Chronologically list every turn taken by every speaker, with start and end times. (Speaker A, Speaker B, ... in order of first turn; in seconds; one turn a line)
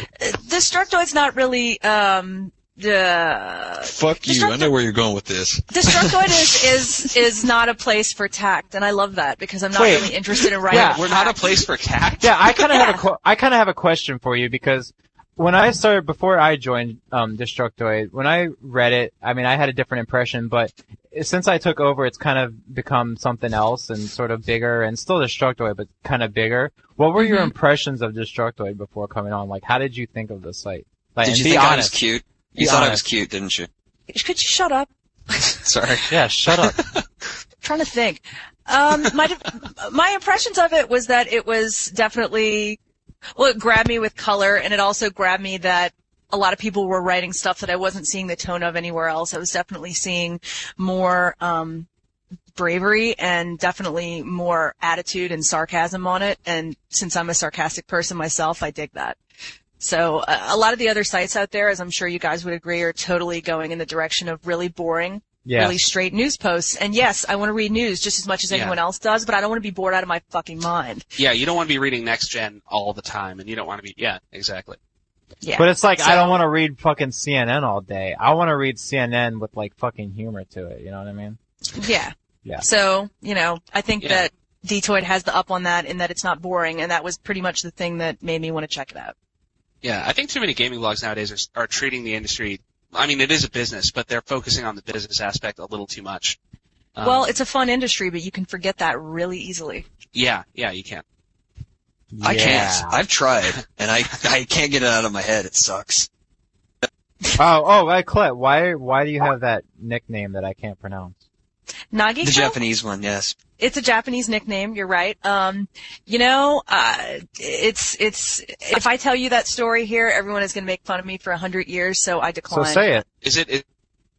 Speaker A: 0.2-4.7
Speaker B: 3.8-6.3
Speaker A: 5.7-11.6
Speaker C: 9.8-10.1
Speaker D: 10.6-12.6
Speaker C: 10.7-11.1
Speaker C: 12.2-31.9
Speaker A: 12.7-13.0
Speaker A: 27.2-27.5
Speaker E: 31.2-33.7
Speaker C: 32.6-33.0
Speaker A: 34.1-35.5
Speaker E: 35.6-36.1
Speaker C: 36.1-36.8
Speaker A: 37.6-42.8
Speaker A: 43.4-51.9
Speaker A: 52.5-59.2
Speaker A: 59.8-71.0
Speaker C: 65.5-65.8
Speaker D: 68.5-68.8
Speaker D: 71.2-74.8
Speaker A: 75.4-76.4
Speaker C: 75.6-81.4
Speaker A: 81.7-89.1
Speaker D: 84.0-84.3
Speaker D: 89.8-96.4
Speaker D: 97.0-97.3
Speaker A: 97.0-99.8
Speaker D: 100.2-101.0
Speaker C: 102.1-103.0
Speaker E: 102.2-106.1
Speaker C: 107.4-111.2
Speaker A: 111.9-112.6
Speaker E: 112.2-113.4
Speaker A: 113.6-122.9
Speaker C: 122.5-123.0
Speaker D: 123.2-123.7